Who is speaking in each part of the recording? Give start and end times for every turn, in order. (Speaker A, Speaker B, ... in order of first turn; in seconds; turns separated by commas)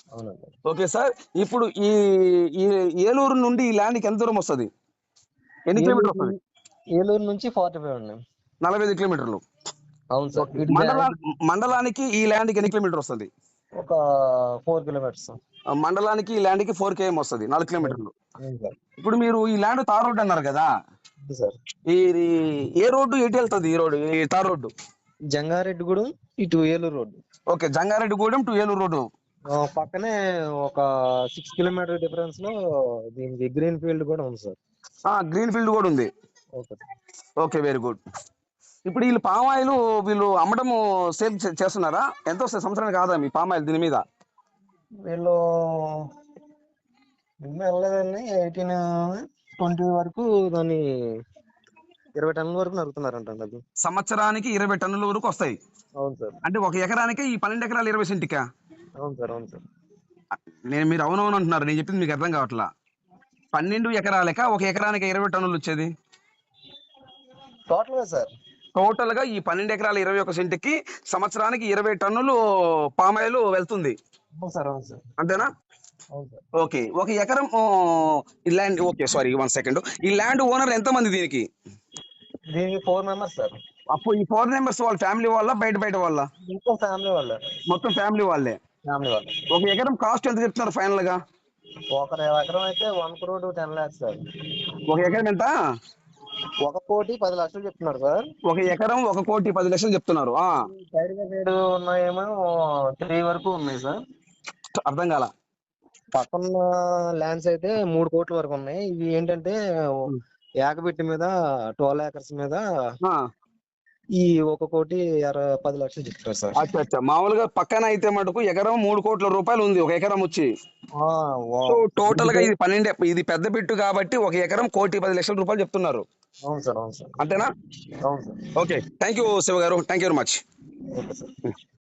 Speaker A: 0.1-0.5, Speaker B: 0.7-4.7, Speaker B: 5.7-6.3, Speaker A: 5.8-6.4, Speaker A: 7.0-8.2, Speaker B: 8.6-9.4, Speaker A: 10.1-11.1, Speaker B: 10.4-13.3, Speaker A: 14.6-15.4, Speaker B: 15.8-18.1, Speaker A: 17.8-18.7, Speaker B: 19.0-20.7, Speaker A: 21.2-21.6, Speaker B: 21.9-24.7, Speaker A: 25.3-27.2, Speaker B: 27.5-29.1, Speaker A: 29.5-30.1, Speaker A: 30.6-32.5, Speaker A: 33.1-34.6, Speaker B: 35.1-36.1, Speaker A: 36.6-36.8, Speaker B: 37.4-38.0, Speaker B: 38.9-44.0, Speaker A: 45.1-46.0, Speaker A: 47.4-50.8, Speaker A: 52.2-53.6, Speaker B: 53.8-55.6, Speaker A: 56.0-56.4, Speaker B: 56.4-58.4, Speaker A: 59.0-59.6, Speaker B: 60.7-62.7, Speaker B: 63.5-65.9, Speaker A: 67.7-68.3, Speaker B: 68.7-72.4, Speaker B: 73.0-74.0, Speaker A: 74.4-75.0, Speaker B: 75.2-75.5, Speaker A: 76.1-76.4, Speaker B: 76.6-81.5, Speaker A: 82.5-83.5, Speaker B: 83.9-86.3, Speaker A: 86.5-87.4, Speaker B: 87.7-88.6, Speaker A: 88.9-89.3, Speaker B: 89.5-91.2, Speaker A: 91.9-94.2, Speaker B: 94.9-95.5, Speaker A: 96.6-98.2, Speaker B: 98.5-100.5, Speaker A: 100.7-102.3, Speaker A: 103.0-104.0, Speaker B: 104.8-105.3, Speaker A: 106.1-110.1, Speaker A: 110.6-112.6, Speaker A: 114.2-116.5, Speaker B: 116.6-120.5, Speaker A: 121.0-122.5, Speaker B: 121.7-126.0, Speaker A: 126.5-127.2, Speaker B: 127.2-127.5, Speaker A: 128.1-128.4, Speaker B: 128.6-130.4, Speaker A: 130.9-131.3